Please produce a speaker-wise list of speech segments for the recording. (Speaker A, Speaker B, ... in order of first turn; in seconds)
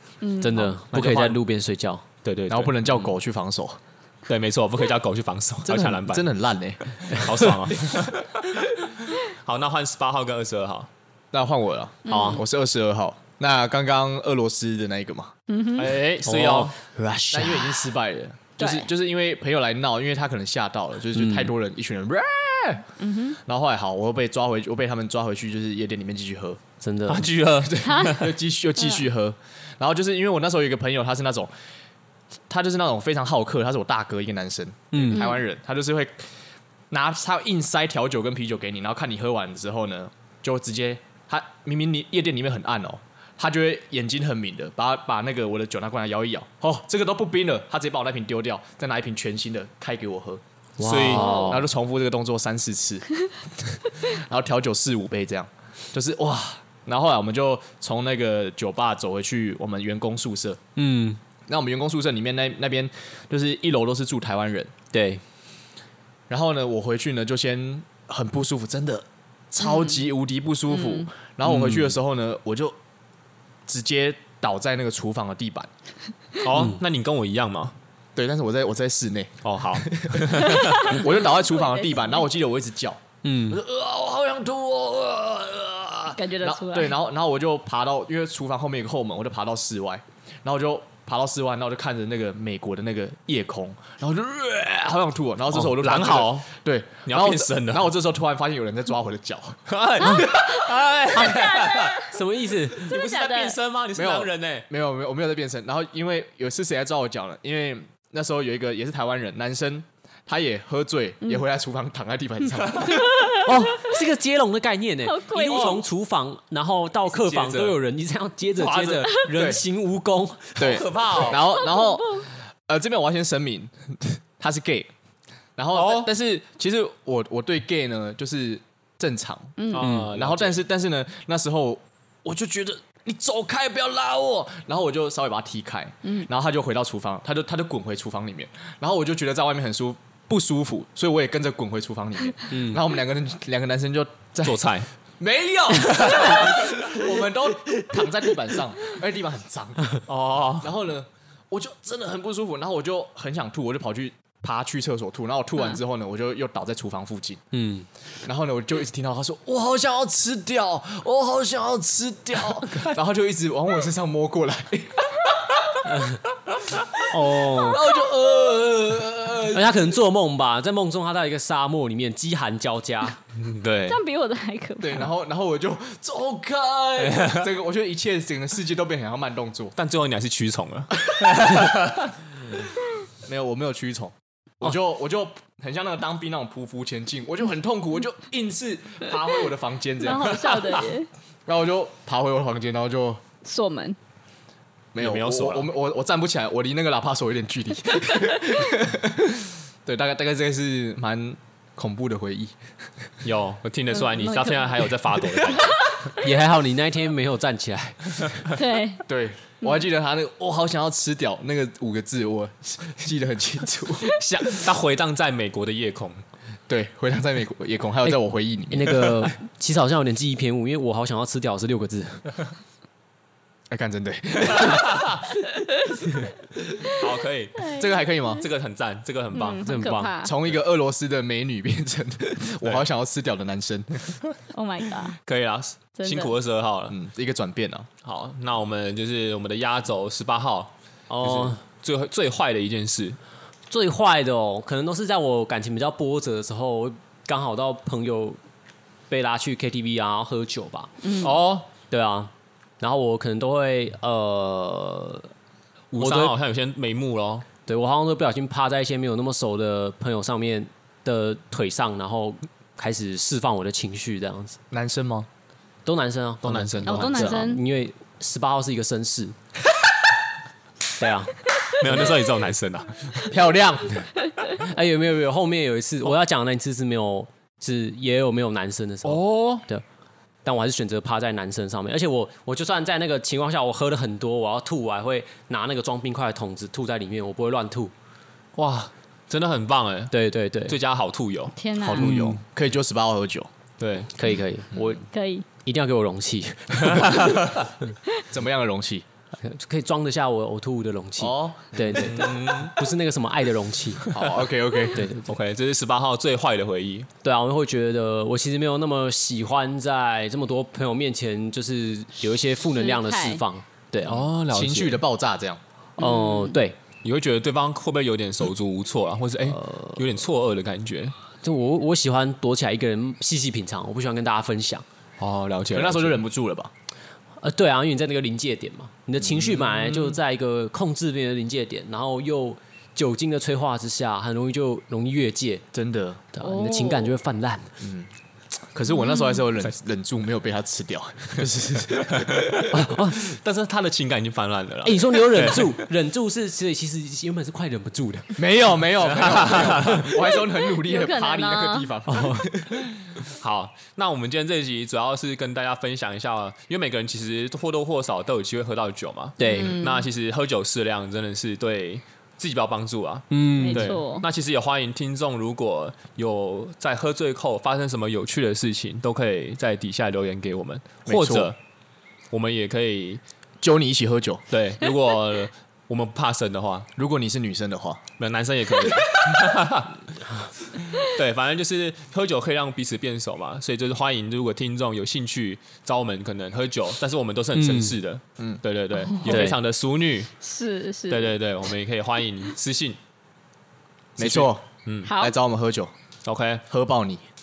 Speaker A: 0.2-0.8, 12.1-12.4, 15.5-16.0, 18.6-18.9, 23.0-23.4, 27.8-28.2, 28.8-29.1, 35.1-35.4, 51.1-51.5, 69.6-70.0, 70.7-71.1, 80.4-82.2, 86.1-86.9, 100.1-102.1, 102.8-103.5, 113.0-113.5, 115.0-115.8, 121.4-122.3, 129.6-129.9, 173.9-175.1, 190.0-191.1, 193.4-194.0, 204.0-204.8, 208.5-209.0, 227.6-228.4, 229.3-230.3, 234.5-235.2, 236.0-236.3, 251.0-251.3, 266.9-267.6, 291.6-292.1, 295.1-295.5, 312.8-313.4, 316.0-316.6, 336.4-337.2, 338.9-339.4, 350.4-351.9, 359.4-360.1, 363.6-364.2, 390.4-391.3, 395.1-395.3
Speaker B: 0.4-2.0, 12.1-12.4, 16.2-17.9, 21.1-21.5, 26.8-27.3, 34.9-35.2, 50.8-51.7, 60.8-61.2, 64.9-65.2, 71.4-71.9, 76.5-76.8, 83.2-83.6, 100.0-100.3, 101.2-103.0, 113.4-120.9, 129.8-130.1, 142.5-142.8, 157.5-157.9, 165.8-166.2, 167.1-167.9, 169.4-173.2, 206.2-208.5, 218.7-222.4, 229.6-230.2, 241.1-241.6, 243.7-248.4, 249.1-251.1, 251.9-255.3, 255.9-256.3, 257.6-264.6, 265.8-269.4, 271.0-272.1, 274.5-279.8, 280.4-287.9, 290.1-290.8, 291.9-292.4, 294.1-295.0, 295.6-297.4, 299.4-304.2, 304.9-305.2, 307.2-314.3, 316.0-316.8, 319.4-320.0, 321.4-324.8, 327.4-335.6, 336.3-337.8, 341.4-342.0, 342.7-343.2, 344.8-348.5, 349.1-350.1, 352.1-352.5, 359.4-359.8, 363.3-363.9, 387.5-387.9, 389.2-389.6
Speaker C: 0.9-1.4, 2.2-2.9, 4.3-6.3, 7.0-10.9, 15.7-16.8, 27.1-28.3, 50.8-51.4, 76.4-77.8, 79.4-81.0, 95.5-96.5, 97.0-97.9, 99.7-102.1, 102.7-104.7, 117.0-117.8, 118.6-119.1, 120.6-121.4, 125.7-126.1, 129.7-130.6, 144.4-144.9, 146.0-146.4, 150.1-150.7, 173.3-174.0, 177.0-177.5, 179.8-182.1, 195.0-195.7, 203.2-205.9, 214.1-216.2, 224.5-225.3, 226.9-229.7, 235.2-237.0, 238.0-243.2, 251.2-251.7, 255.9-257.5, 266.4-267.4, 271.8-273.3, 279.0-279.6, 288.6-291.6, 293.8-294.1, 296.8-297.7, 301.9-302.8, 305.2-307.1, 314.0-315.0, 317.0-321.1, 325.2-326.2, 342.1-345.8, 349.1-350.1, 353.4-371.6, 372.3-373.2, 374.5-376.9, 378.2-380.0, 380.9-390.3, 391.1-393.0, 394.2-395.1, 396.2-396.6
Speaker D: 2.5-3.8, 5.6-7.4, 11.3-15.3, 17.3-22.9, 23.4-26.6, 27.6-31.5, 32.5-36.3, 36.9-50.4, 51.2-60.6, 61.5-64.7, 66.3-72.8, 73.7-75.7, 78.2-99.6, 103.9-113.1, 119.3-119.6, 120.6-124.9, 125.6-144.6, 145.2-150.1, 150.6-157.4, 158.2-165.3, 167.2-169.8, 174.8-179.7, 183.2-190.8, 191.4-193.2, 194.9-202.6, 209.0-214.2, 216.7-219.3, 223.7-225.2, 227.7-228.4, 230.2-234.2, 236.9-237.9, 264.7-265.3, 273.3-274.1, 291.8-293.5, 298.3-299.0, 301.2-302.4, 304.1-305.1, 314.5-315.6, 325.7-326.7, 329.2-330.2, 335.7-336.2, 337.8-342.7, 348.3-352.9, 371.1-371.5, 373.6-374.4, 376.9-378.0, 394.2-395.9, 396.7-397.2